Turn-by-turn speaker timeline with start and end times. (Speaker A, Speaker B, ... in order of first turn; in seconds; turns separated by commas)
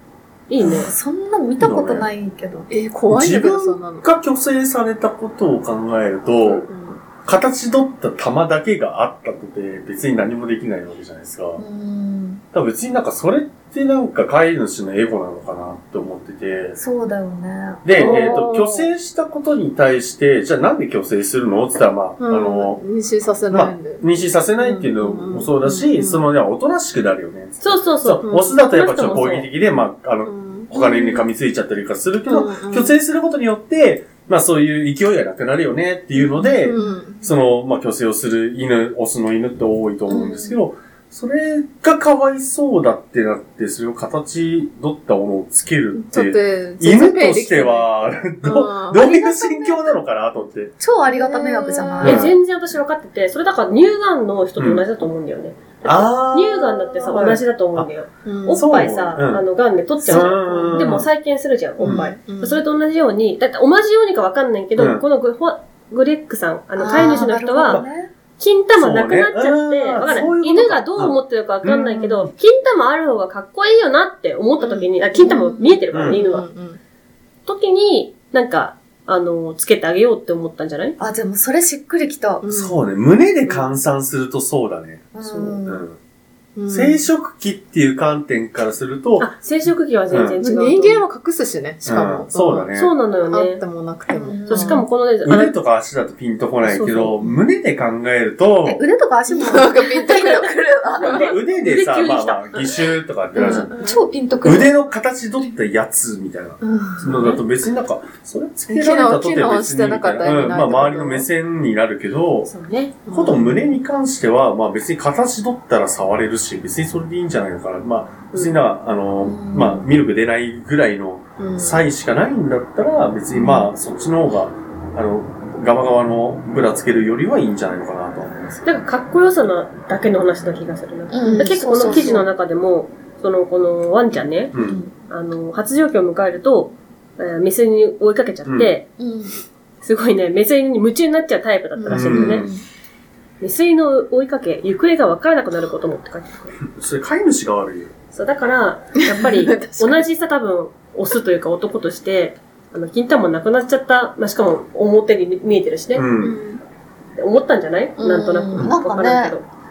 Speaker A: 0.5-0.9, Speaker B: 0.6-2.7, Speaker C: 1.6-2.1, Speaker D: 2.7-4.1, Speaker C: 3.1-6.6, Speaker D: 6.7-7.1, Speaker C: 7.2-11.6, Speaker B: 11.6-12.4, Speaker C: 12.5-16.8, Speaker B: 16.8-18.0, Speaker C: 17.8-22.8, Speaker A: 18.0-18.4, Speaker D: 18.0-18.9, Speaker D: 22.2-24.1, Speaker C: 23.5-50.8, Speaker D: 24.6-26.3, Speaker A: 27.6-29.5, Speaker D: 28.2-28.6, Speaker D: 30.2-31.2, Speaker D: 32.3-33.0, Speaker D: 36.6-37.2, Speaker B: 40.1-40.6, Speaker D: 45.9-47.9, Speaker D: 48.4-49.0, Speaker B: 48.9-50.0, Speaker B: 50.8-52.3, Speaker D: 51.1-52.0, Speaker A: 52.0-67.8, Speaker C: 52.0-52.4, Speaker C: 54.6-54.8, Speaker C: 55.9-57.9, Speaker D: 58.2-58.5, Speaker C: 58.5-59.4, Speaker B: 60.0-60.8, Speaker C: 60.0-61.1, Speaker D: 61.8-62.6, Speaker B: 61.8-62.1, Speaker C: 64.8-65.0, Speaker B: 66.7-68.1, Speaker C: 67.0-67.8, Speaker A: 68.4-76.5, Speaker C: 68.8-72.2, Speaker B: 74.6-75.8, Speaker C: 75.9-76.2, Speaker D: 76.1-76.8, Speaker A: 77.5-81.0, Speaker B: 81.0-82.5, Speaker D: 82.4-82.8, Speaker C: 82.5-85.1, Speaker B: 85.1-85.8, Speaker A: 85.2-85.5, Speaker C: 85.6-86.0, Speaker D: 86.5-87.0, Speaker C: 86.7-89.3, Speaker A: 89.2-91.0, Speaker C: 90.1-90.4, Speaker D: 90.3-92.7, Speaker C: 91.8-92.9, Speaker A: 92.7-93.6, Speaker D: 93.3-94.8, Speaker B: 94.1-94.8, Speaker A: 94.5-95.5, Speaker C: 95.2-98.8, Speaker A: 96.6-97.2, Speaker B: 98.6-100.1, Speaker D: 99.3-101.2, Speaker A: 101.0-102.8, Speaker C: 101.0-103.6, Speaker D: 103.3-103.9, Speaker B: 103.3-104.7, Speaker C: 104.4-112.5, Speaker D: 106.6-107.4, Speaker D: 108.7-111.3, Speaker A: 112.4-113.0, Speaker D: 113.1-113.4, Speaker C: 113.1-128.7, Speaker A: 118.3-118.6, Speaker B: 119.3-119.8, Speaker D: 121.4-121.8, Speaker B: 123.3-123.7, Speaker A: 128.6-134.5, Speaker B: 131.1-132.3, Speaker C: 134.5-134.8, Speaker B: 134.5-134.9, Speaker A: 135.1-138.9, Speaker C: 138.4-138.7, Speaker B: 139.0-139.3, Speaker A: 139.8-142.5, Speaker D: 141.8-142.3, Speaker C: 141.9-142.5, Speaker B: 142.3-142.6, Speaker A: 143.4-146.5, Speaker C: 146.7-147.9, Speaker A: 148.1-156.2, Speaker D: 149.2-150.0, Speaker C: 155.9-156.4, Speaker D: 156.2-156.6, Speaker A: 157.2-159.4, Speaker D: 158.0-158.3, Speaker B: 158.5-159.3